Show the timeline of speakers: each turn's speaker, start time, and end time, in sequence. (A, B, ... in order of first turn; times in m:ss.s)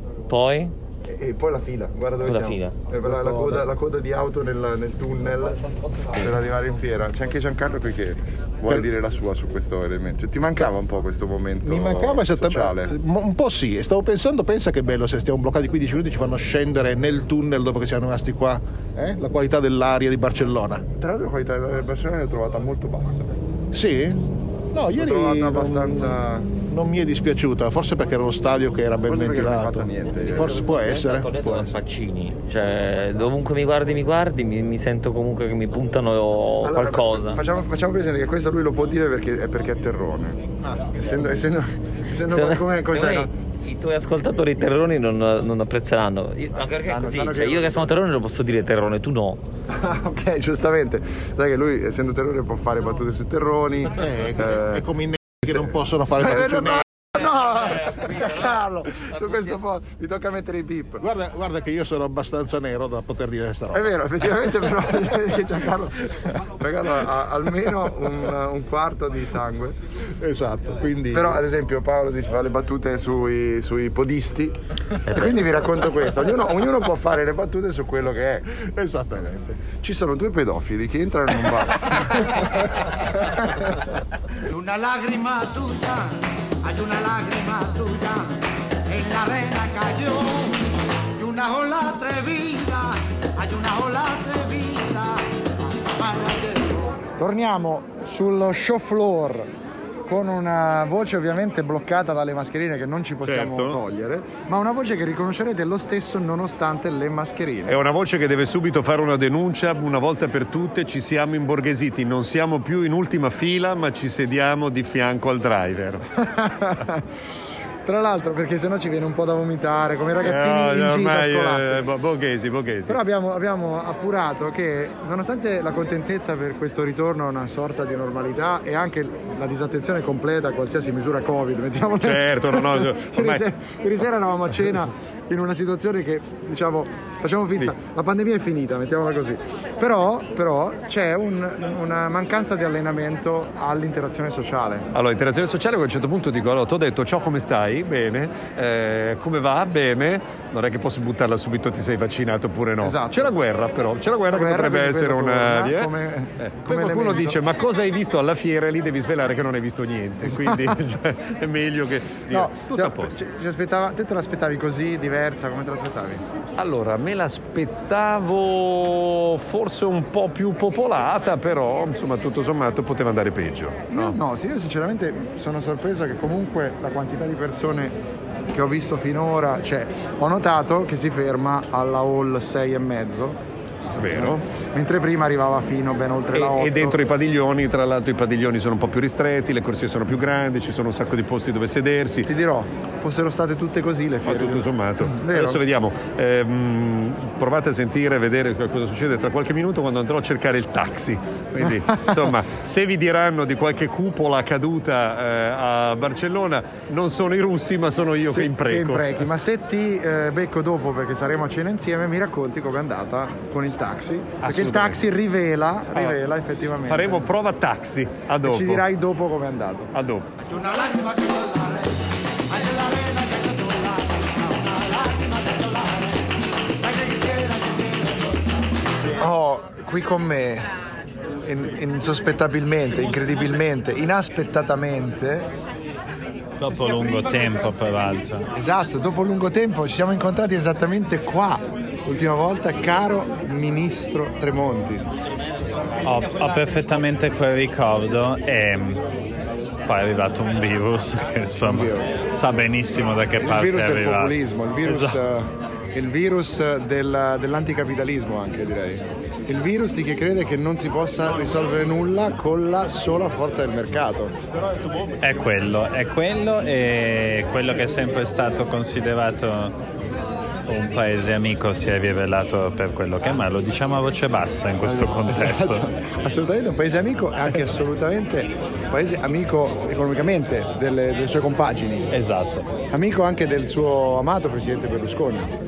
0:00.3-0:00.7 A
0:01.0-0:13.0 B
0:02.2-0:02.8 A
0:11.6-0:20.8 C
0:21.0-0:23.3 B
0:23.7-0:31.7 C
0:24.9-0:26.5 B
0:29.0-0:30.5 B
0:30.2-0:37.4 A
0:36.6-0:43.3 B
0:42.3-0:49.4 A
0:46.6-0:47.9 B
0:49.7-0:54.8 B
0:54.0-0:56.9 C
0:55.4-1:01.0 B
1:01.0-1:03.9 C
1:03.7-1:09.8 B
1:10.2-1:11.4 C
1:11.1-1:18.6 B
1:18.6-1:19.6 C
1:19.7-1:23.4 B
1:24.5-1:35.3 D
1:35.8-1:36.9 D
1:37.2-1:39.5 B
1:40.1-1:47.8 B
1:43.2-1:43.8 E
1:47.7-1:56.0 E
1:56.2-1:57.0 B
1:57.8-2:01.8 B
2:00.2-2:03.0 E
2:02.9-2:24.9 B
2:12.0-2:13.4 E
2:24.9-2:43.1 E
2:32.8-2:33.3 B
2:34.2-2:37.4 B
2:40.3-2:40.8 B
2:42.3-2:46.2 B
2:46.6-2:54.2 E
2:53.9-2:58.0 B
2:58.5-3:03.4 B
3:04.0-3:04.4 E
3:04.1-3:07.0 B
3:06.3-3:12.3 E
3:12.2-3:15.6 B
3:14.2-3:29.2 E
3:21.6-3:22.2 B
3:28.3-3:37.3 B
3:34.4-3:35.0 E
3:36.9-3:38.8 E
3:38.4-3:39.9 B
3:39.9-3:40.3 E
3:40.5-3:46.2 D
3:46.8-3:48.5 D
3:49.1-3:50.7 B
3:51.4-3:55.5 B
3:56.6-3:58.5 F
3:58.5-4:05.1 B
4:06.0-4:09.0 F
4:09.8-4:15.2 F
4:11.6-4:12.2 B
4:13.4-4:24.3 B
4:25.2-4:29.8 F
4:30.7-4:35.8 F
4:34.9-4:42.1 B
4:42.1-4:42.7 F
4:42.9-4:45.5 B